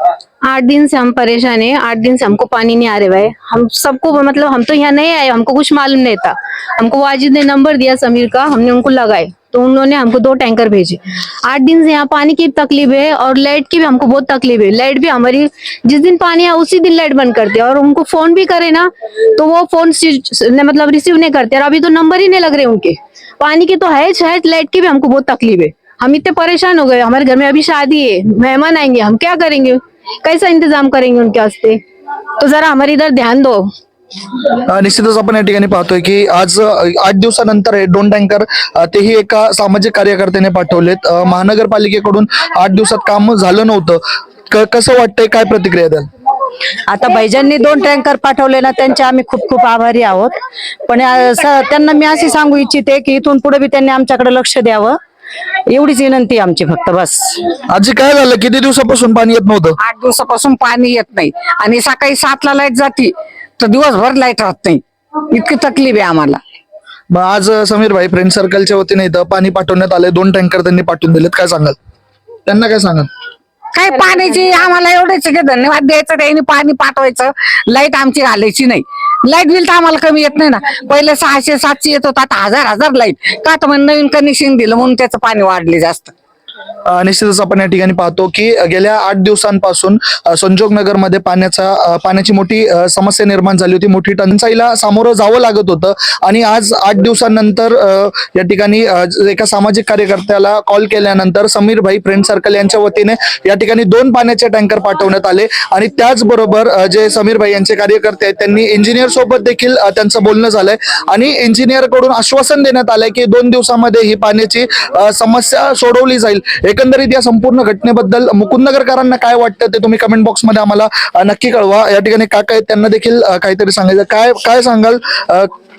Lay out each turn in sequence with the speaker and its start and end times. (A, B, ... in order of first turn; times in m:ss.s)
0:00.5-0:31.8 A
0:32.4-0:33.7 A
0:34.7-0:46.1 B
0:46.9-0:50.3 C
0:50.9-0:55.0 C
0:55.7-0:57.4 C
0:57.7-0:59.8 B
0:59.8-1:06.4 D
1:07.1-1:11.8 B
1:12.5-1:13.1 B
1:13.7-1:26.1 D
1:26.8-2:05.5 B